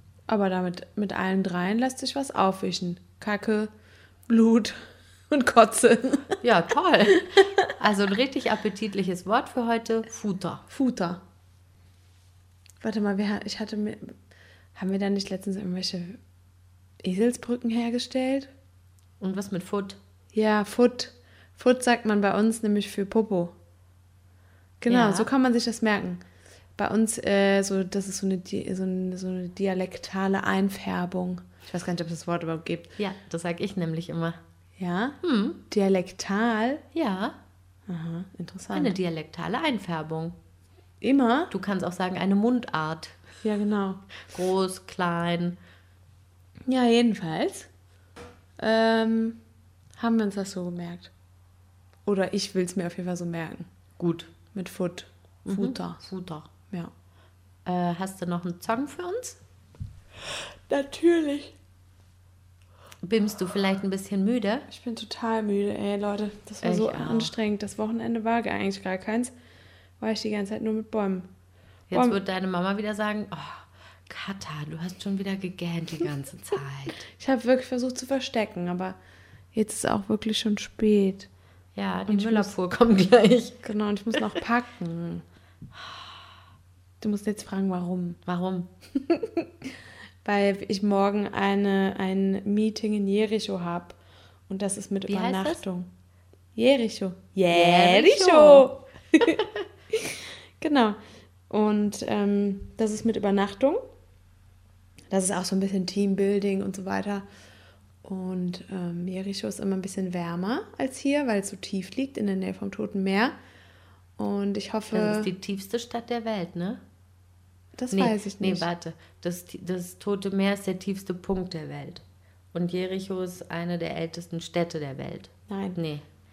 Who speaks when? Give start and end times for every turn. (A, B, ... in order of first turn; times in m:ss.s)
0:00.3-0:03.7 A
0:04.3-0:06.4 A
0:06.4-0:10.6 B
0:10.7-0:11.2 A
0:12.8-0:14.2 A
0:14.8-0:16.2 A
0:17.0-0:18.5 A
0:19.2-0:20.0 B
0:20.3-0:23.6 A
0:24.8-0:26.2 A
0:24.9-0:25.3 B
0:26.8-0:32.9 A
0:33.0-0:34.4 B
0:34.8-0:36.8 A
0:35.2-0:35.6 B
0:36.9-0:37.4 B
0:37.9-0:39.0 A
0:38.7-0:40.4 B
0:41.0-0:41.5 A
0:41.5-0:43.2 B
0:43.4-0:44.0 A
0:44.2-0:45.6 B
0:46.7-0:47.7 A
0:48.6-0:49.4 A
0:50.0-0:51.1 A
0:52.0-0:53.7 A
0:54.0-0:54.3 B
0:54.5-0:56.0 A
0:55.5-0:56.5 B
0:57.6-0:59.4 B
1:00.7-1:01.6 A
1:03.0-1:04.7 B
1:04.7-1:09.3 A
1:06.6-1:07.3 B
1:10.0-1:11.3 A
1:11.9-1:17.0 B
1:11.9-1:12.2 A
1:17.1-1:19.0 A
1:19.5-1:21.3 A
1:21.8-1:23.7 B
1:22.1-1:22.5 A
1:23.6-1:25.2 A
1:27.0-1:28.2 A
1:28.3-1:28.7 B
1:29.0-1:29.7 A
1:30.2-1:34.0 A
1:34.5-1:35.9 A
1:35.1-1:35.6 B
1:36.6-1:41.0 A
1:37.5-1:38.7 B
1:41.5-1:43.8 A
1:45.1-1:47.3 A
1:48.0-1:53.4 A
1:54.2-1:55.3 A
1:54.9-1:56.8 B
1:57.8-1:58.7 A
1:57.9-2:06.0 B
2:05.5-2:05.8 A